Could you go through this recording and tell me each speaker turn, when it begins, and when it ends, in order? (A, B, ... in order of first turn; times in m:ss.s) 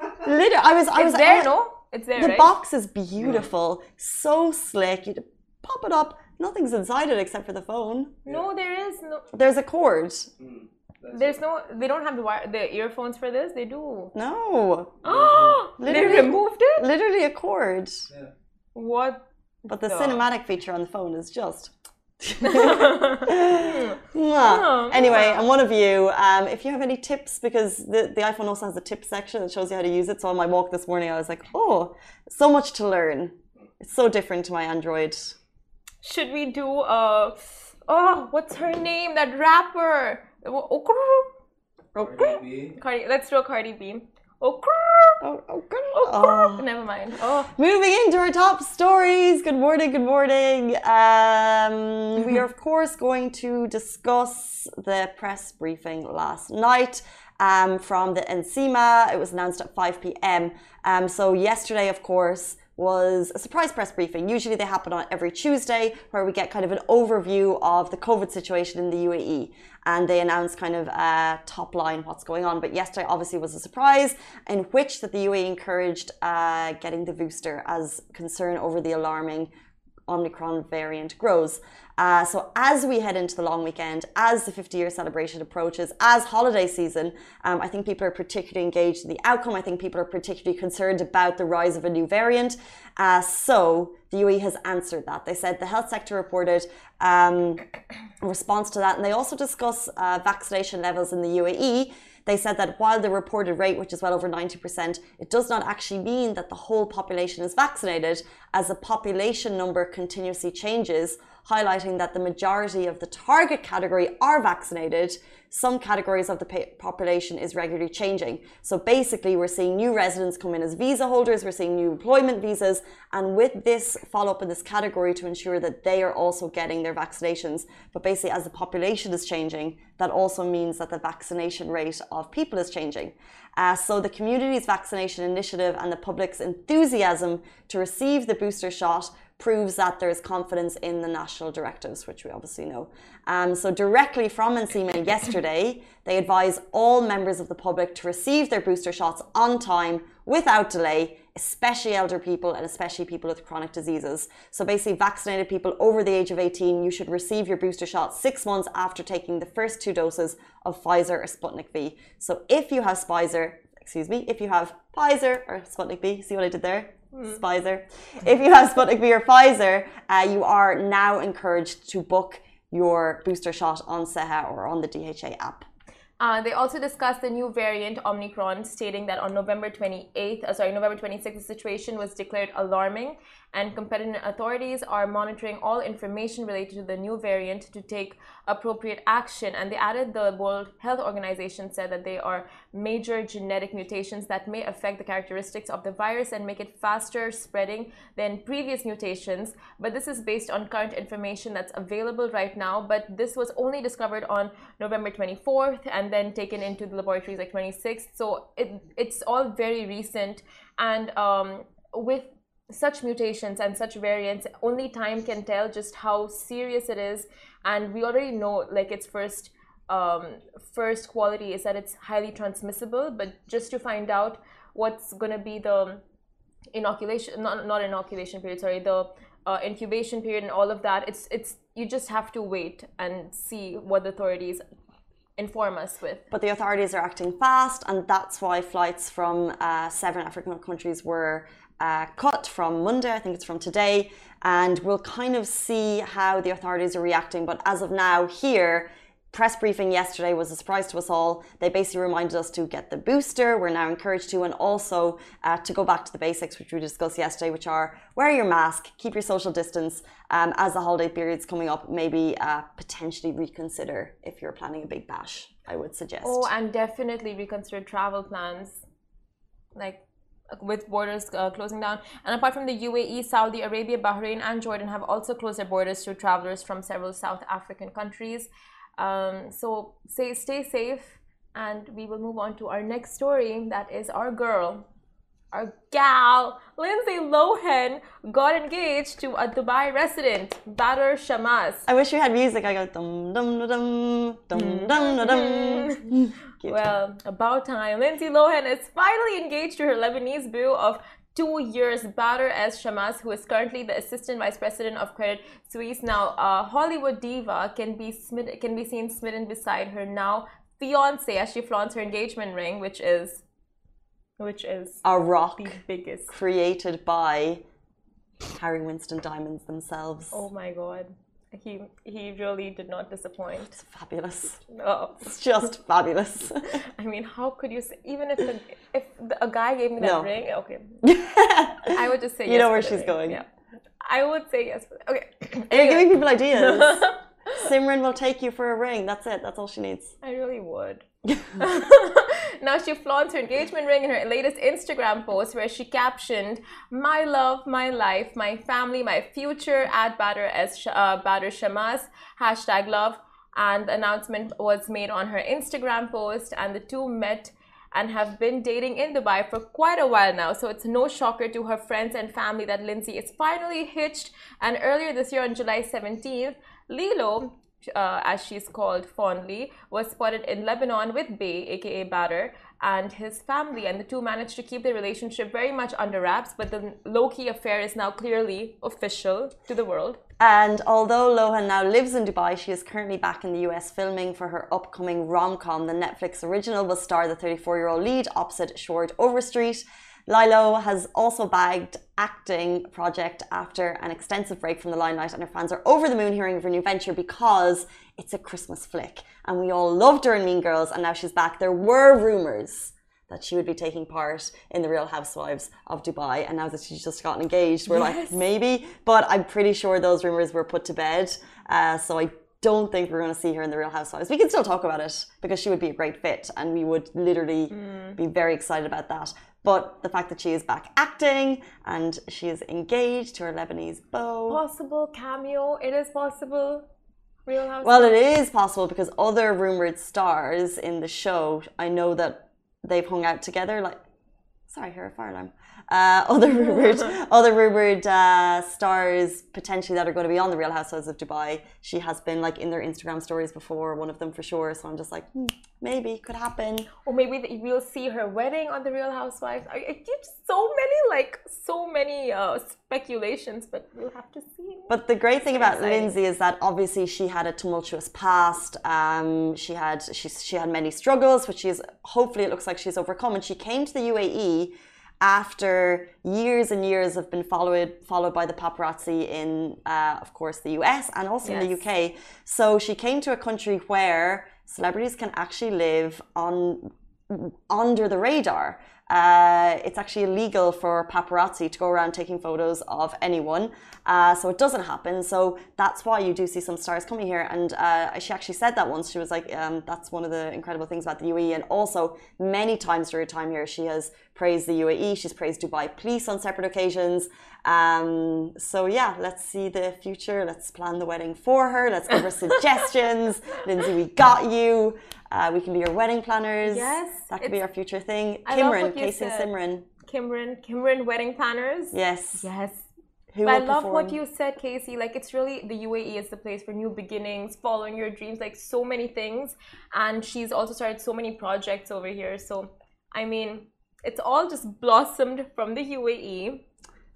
0:00.2-0:01.5 A
0:01.0-0:02.5 B
0:02.2-0:08.2 A
0:08.3-0:09.2 B
0:09.3-0:10.3 A
0:10.4-0:11.3 C
0:11.1-0:14.1 B
0:14.1-0:15.0 A
0:15.0-0:16.9 B
0:15.0-0:15.6 C
0:15.8-0:18.0 A
0:18.7-0:19.2 B
0:19.7-0:35.4 A
0:19.8-0:20.2 B
0:22.4-0:25.5 B
0:36.0-0:41.3 B
0:41.9-0:42.8 C
0:42.0-0:45.2 B
0:45.2-0:46.7 A
0:45.9-0:47.5 B
0:47.5-1:19.5 A
1:20.1-1:37.6 A
1:38.2-2:55.7 A
2:47.1-2:47.4 B
2:56.2-3:46.0 B
3:46.7-3:54.6 B
3:55.4-3:56.2 B
3:56.3-4:26.5 A
4:26.2-4:28.8 B
4:29.7-4:44.8 B
4:45.5-4:51.8 B
4:51.8-4:56.9 A
4:54.5-4:56.1 B
4:56.6-5:13.4 B
5:14.4-5:15.0 B
5:15.0-5:17.6 A
5:15.6-5:16.3 B
5:18.5-5:20.4 A
5:20.3-5:23.7 B
5:23.6-5:24.6 A
5:24.7-5:25.2 B
5:25.2-5:26.8 A
5:26.9-5:31.0 B
5:30.0-5:30.3 A
5:31.0-5:33.4 A
5:31.9-5:33.4 B
5:34.0-5:37.1 B
5:35.7-5:40.1 A
5:40.2-5:41.0 B
5:41.6-6:20.2 B
6:20.4-7:04.6 A
6:47.9-6:48.4 B
6:57.7-6:58.2 B
7:04.5-7:06.8 B
7:07.5-7:08.2 B
7:07.8-7:14.0 A
7:14.7-7:26.9 A
7:27.0-7:34.9 B
7:34.9-8:29.8 A
7:35.5-7:36.1 B
7:51.4-7:51.8 B
8:26.6-8:27.6 B
8:28.4-8:29.5 B
8:30.0-8:32.9 B
8:31.9-8:32.5 A
8:33.3-8:34.2 A
8:33.4-8:46.6 B